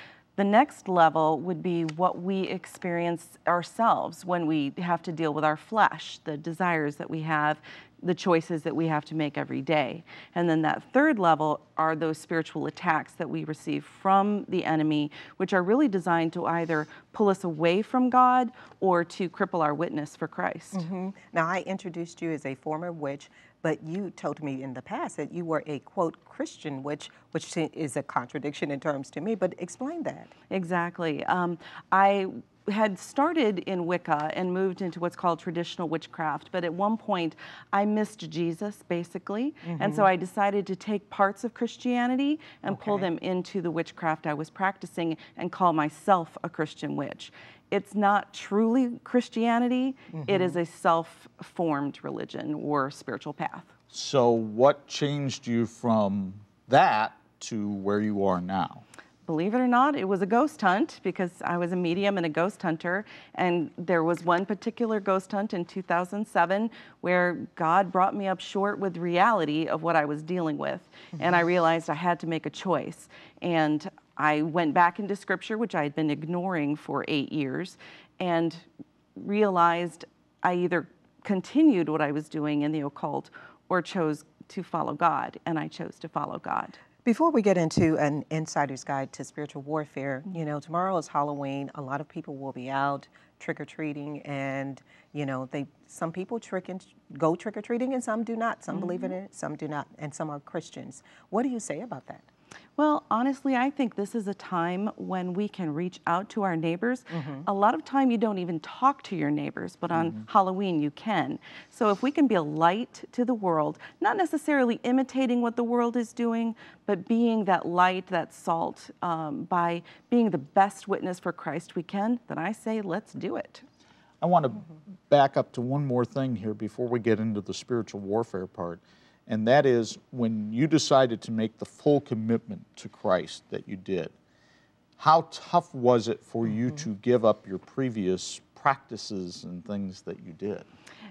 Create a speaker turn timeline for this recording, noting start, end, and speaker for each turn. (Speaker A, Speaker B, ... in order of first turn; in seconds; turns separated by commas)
Speaker A: 0.4-20.9, Speaker B: 20.7-30.3, Speaker A: 30.5-53.7, Speaker B: 39.6-40.1, Speaker B: 42.7-43.1, Speaker B: 50.1-50.6, Speaker C: 53.9-58.8, Speaker A: 59.2-78.7, Speaker A: 79.2-86.8, Speaker B: 87.0-102.2, Speaker A: 98.7-99.1, Speaker A: 102.8-123.6, Speaker B: 107.1-107.5, Speaker C: 110.0-110.2, Speaker C: 124.2-134.1, Speaker C: 135.0-140.7